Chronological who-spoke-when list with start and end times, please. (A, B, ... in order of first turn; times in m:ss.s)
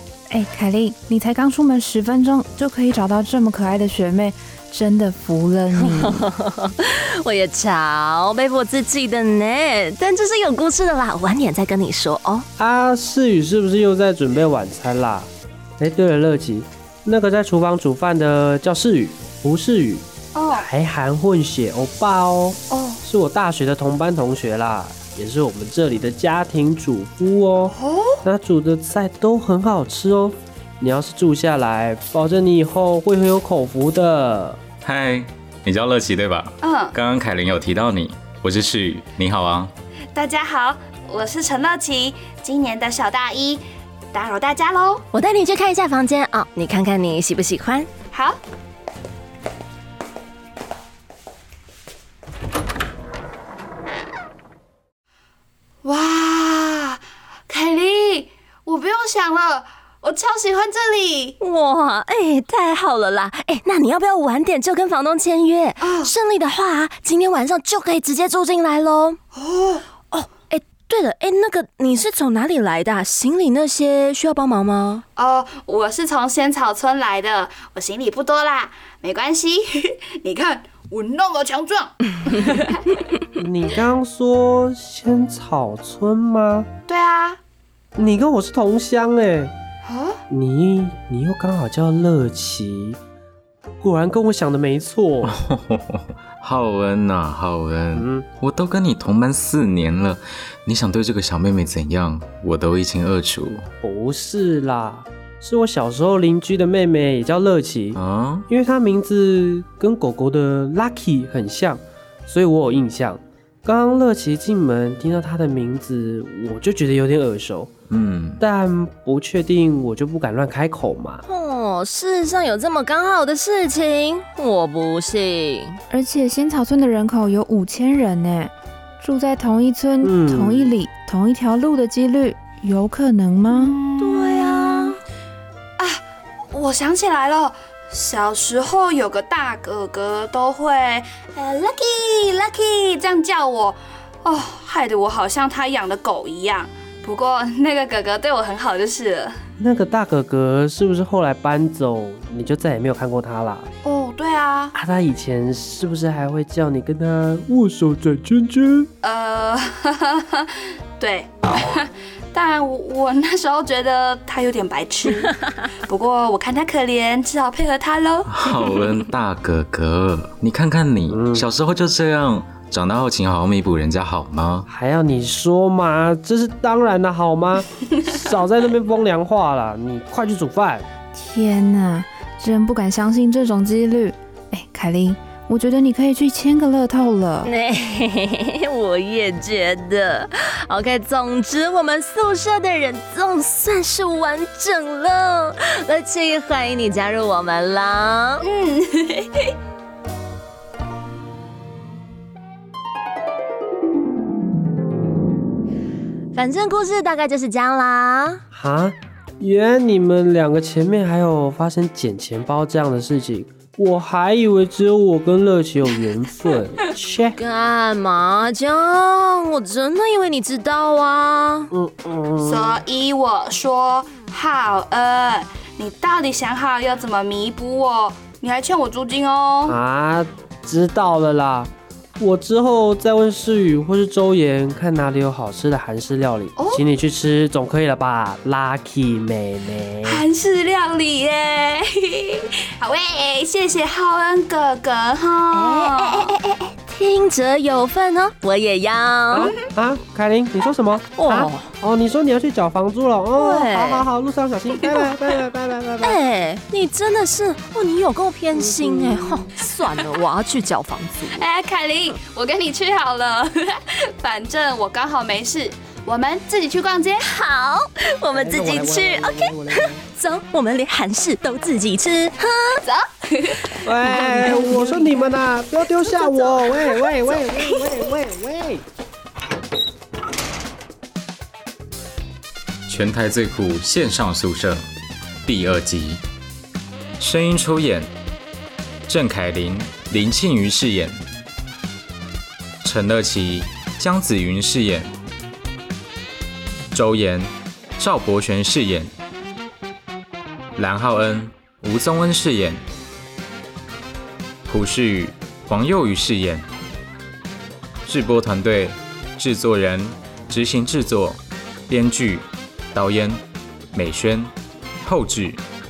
0:00.3-0:06.2 A
0:05.7-0:12.4 B
0:12.6-0:34.6 C
0:20.3-0:20.7 D
0:22.7-0:23.0 D
0:27.7-0:28.2 D
0:34.8-0:39.7 E
0:36.6-0:37.0 D
0:40.1-0:43.6 D
0:44.1-0:45.0 D
0:45.1-0:47.9 B
0:48.1-0:48.4 D
0:55.8-1:01.4 D
1:01.4-1:09.2 B
1:05.8-1:06.1 D
1:09.3-1:09.8 D
1:10.1-1:15.0 B
1:15.2-1:22.8 D
1:23.4-1:26.7 C
1:26.9-1:27.4 D
1:28.0-1:29.5 C
1:29.8-1:30.2 D
1:30.3-1:33.0 C
1:33.8-1:35.3 C
1:35.2-1:43.6 E
1:37.9-1:38.2 C
1:43.8-1:57.7 C
1:47.9-1:48.4 E
1:57.9-1:58.4 E
1:58.4-2:01.2 C
2:01.3-2:05.8 B
2:05.9-2:13.8 A
2:10.0-2:10.7 C
2:13.5-2:14.9 D
2:14.0-2:15.0 B
2:15.8-2:29.3 D
2:29.6-2:33.7 C
2:33.8-2:34.7 D
2:34.7-2:38.9 C
2:39.0-2:48.3 D
2:48.2-2:54.7 E
2:51.1-2:51.4 C
2:54.7-3:00.8 C
3:01.1-3:07.5 A
3:07.4-3:18.4 B
3:18.4-3:19.5 D
3:26.3-3:28.4 B
3:28.5-3:37.4 C
3:37.3-3:41.7 B
3:41.7-3:42.8 C
3:42.4-3:49.8 D
3:49.7-4:00.2 C
3:56.6-3:56.8 D
4:00.0-4:06.3 D
4:05.5-4:09.5 B
4:09.3-4:16.2 C
4:11.1-4:11.7 B
4:13.3-4:14.1 B
4:16.0-4:21.5 B
4:18.5-4:19.4 C
4:21.3-4:27.2 D
4:27.2-4:32.8 B
4:28.3-4:30.0 C
4:32.8-4:33.9 D
4:33.8-4:38.8 C
4:34.1-4:35.0 B
4:36.1-4:37.9 B
4:42.9-4:44.8 E
4:45.4-4:46.2 E
4:47.2-4:48.1 E
4:49.1-4:51.1 E
4:52.8-4:55.1 E
4:56.9-4:59.1 E
5:00.8-5:02.8 E
5:04.7-5:06.6 E
5:08.0-5:13.4 E
5:13.9-5:14.5 E
5:15.0-5:15.6 E